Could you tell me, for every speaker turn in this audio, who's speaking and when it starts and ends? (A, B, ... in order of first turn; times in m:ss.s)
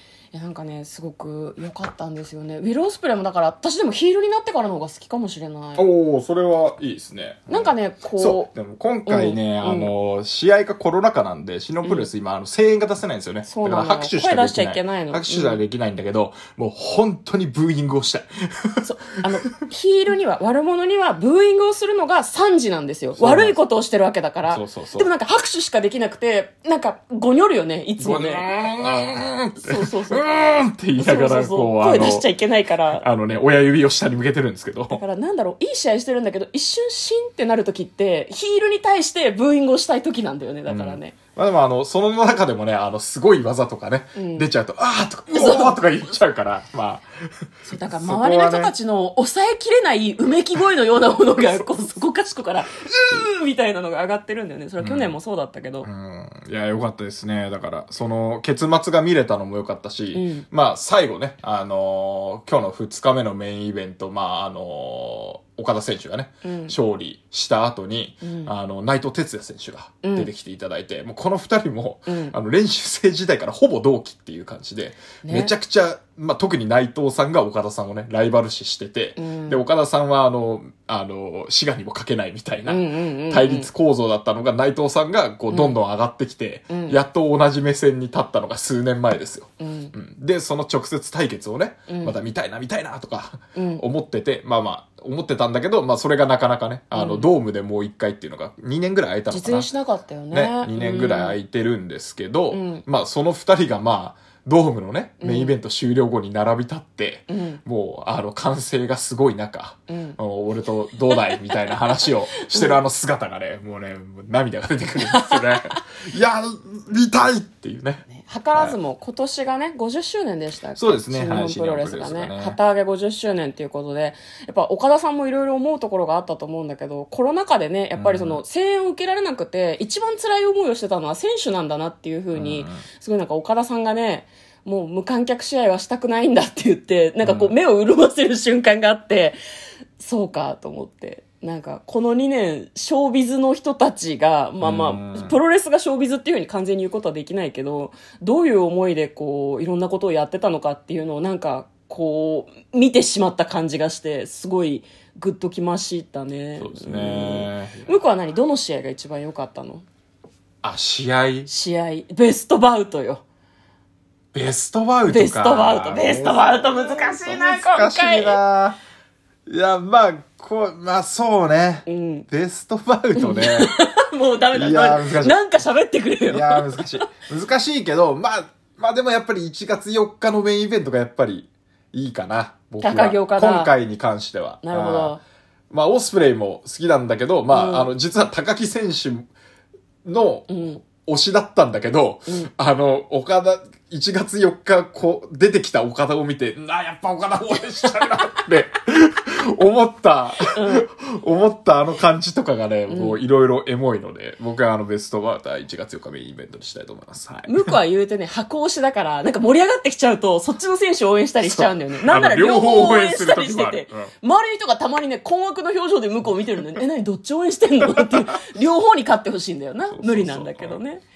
0:00.3-0:05.8 A
0:05.8-0:18.9 B
0:07.5-0:08.5 A
0:09.1-0:09.9 A
0:11.8-0:12.1 A
0:13.4-0:15.6 A
0:18.8-0:30.3 A
0:23.2-0:23.6 B
0:24.5-0:25.1 B
0:28.0-0:32.3 B
0:31.0-0:33.0 A
0:33.0-0:35.0 B
0:34.9-0:41.2 A
0:40.7-0:48.7 B
0:44.2-0:44.5 A
0:45.3-0:45.8 A
0:47.7-0:55.9 A
0:54.8-0:55.2 B
0:55.8-1:39.7 B
1:00.1-1:00.5 A
1:06.4-1:06.8 A
1:08.2-1:08.5 A
1:10.0-1:10.3 A
1:12.1-1:12.3 A
1:15.2-1:15.5 A
1:19.2-1:19.6 A
1:22.7-1:23.7 A
1:25.5-1:25.8 A
1:26.7-1:27.0 A
1:29.6-1:29.9 A
1:31.9-1:32.2 A
1:33.6-1:33.8 A
1:36.9-1:37.3 A
1:39.3-1:41.4 A
1:40.3-1:58.8 B
1:42.5-1:42.8 A
1:45.2-1:45.6 A
1:47.3-1:47.6 A
1:49.9-1:50.2 A
1:51.2-1:51.6 A
1:52.5-1:52.8 A
1:55.1-1:55.8 A
1:58.1-2:19.4 A
2:00.8-2:02.6 B
2:08.0-2:08.4 B
2:12.3-2:12.8 B
2:17.2-2:17.5 B
2:20.0-2:39.8 A
2:24.6-2:25.4 B
2:36.6-2:38.0 B
2:40.6-2:41.5 B
2:41.5-2:43.2 A
2:44.3-2:48.8 B
2:45.1-2:48.4 A
2:49.5-2:53.7 B
2:51.9-2:52.3 A
2:53.2-2:56.9 A
2:54.5-2:55.4 B
2:56.3-3:05.2 B
3:02.8-3:03.7 A
3:04.6-3:05.2 A
3:05.7-3:09.3 B
3:07.5-3:07.9 A
3:10.0-3:27.7 B
3:10.5-3:10.8 A
3:20.5-3:20.9 A
3:22.9-3:23.2 A
3:27.5-3:41.0 A
3:31.4-3:34.1 B
3:39.9-3:40.8 B